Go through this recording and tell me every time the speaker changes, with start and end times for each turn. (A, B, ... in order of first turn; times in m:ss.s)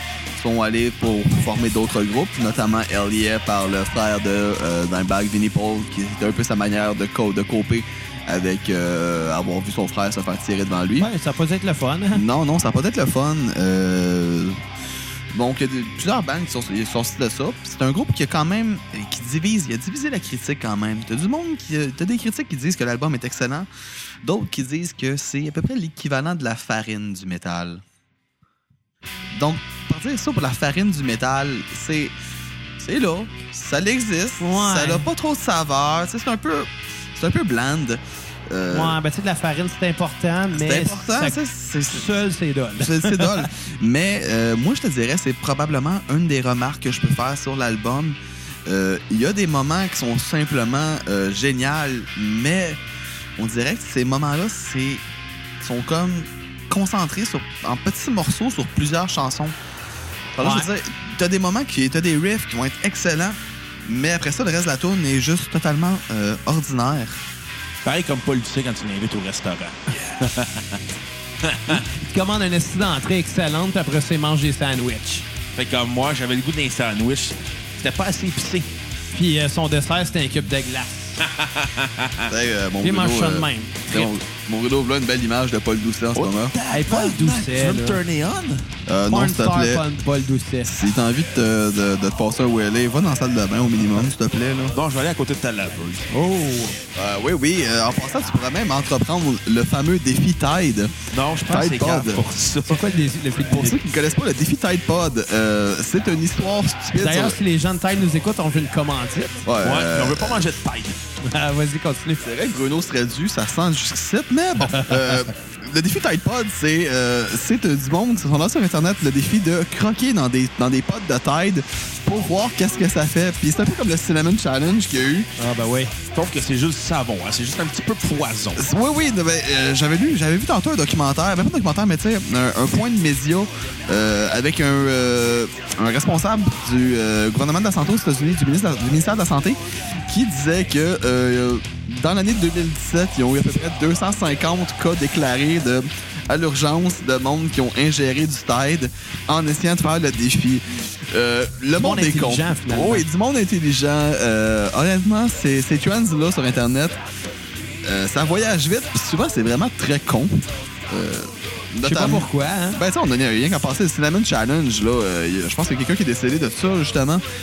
0:00.3-0:11.1 A
0:11.0-0:12.2 B
0:12.1-0:14.6 A
0:15.3-0:23.7 A
0:24.2-0:27.8 A
0:29.3-0:32.2 A
0:32.8-0:39.0 A
0:34.4-0:35.1 B
0:38.7-0:43.5 B
0:40.5-0:42.1 A
0:42.8-0:52.8 A
0:53.4-0:55.0 A
0:55.6-0:59.6 A
1:00.4-1:07.2 A
1:00.4-1:00.7 B
1:07.8-1:10.8 C
1:11.4-1:11.8 C
1:11.7-1:15.3 B
1:15.6-1:18.7 C
1:19.1-1:21.2 B
1:21.2-1:22.3 C
1:22.3-1:26.5 A
1:22.8-1:23.9 B
1:26.2-1:28.7 C
1:26.7-1:28.0 B
1:28.9-1:29.8 A
1:29.1-1:30.7 B
1:30.7-1:34.8 A
1:34.7-1:36.1 C
1:36.1-1:36.8 B
1:37.0-1:41.0 A
1:41.1-1:42.9 C
1:41.5-1:42.2 A
1:42.7-1:43.8 B
1:43.5-1:47.4 A
1:47.0-1:49.4 B
1:49.4-1:50.5 A
1:49.6-1:51.0 C
1:51.2-1:52.2 B
1:52.2-2:05.3 A
1:54.7-1:55.0 B
2:05.4-2:06.0 B
2:06.1-2:08.7 C
2:08.6-2:37.0 A
2:31.8-2:33.0 B
2:37.8-2:47.2 A
2:41.8-2:42.8 B